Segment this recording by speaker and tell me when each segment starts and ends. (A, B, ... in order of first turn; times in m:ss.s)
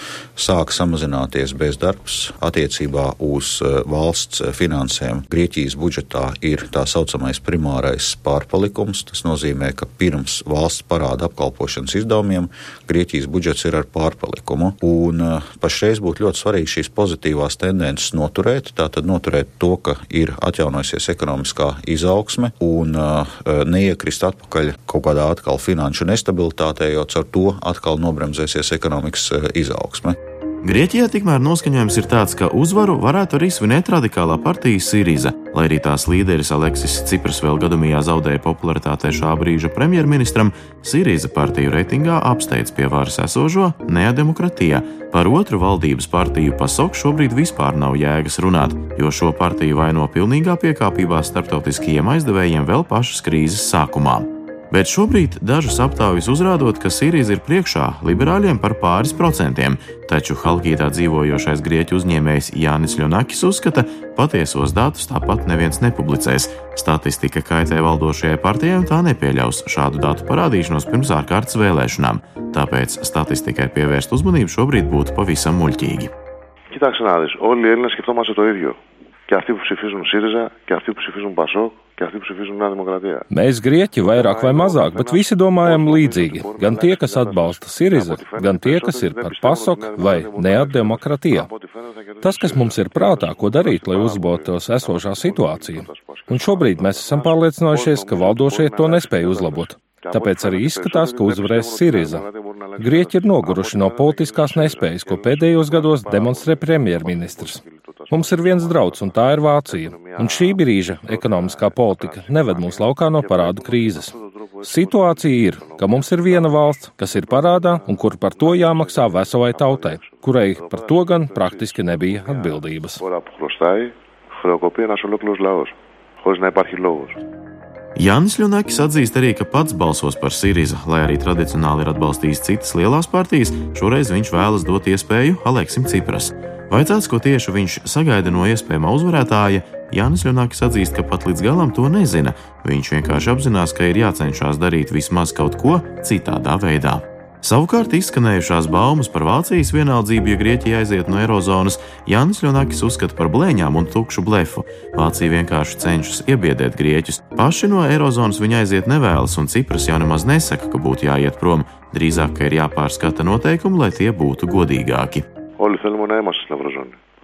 0:00.4-0:30.2 A
0:30.6-1:16.1 B
1:16.7-1:23.2 C
1:23.3-1:31.5 D
1:23.9-2:07.2 C
1:32.2-1:42.2 D
1:42.8-1:54.1 D
1:54.6-2:03.0 D
2:08.0-2:45.2 B
2:45.6-2:46.9 C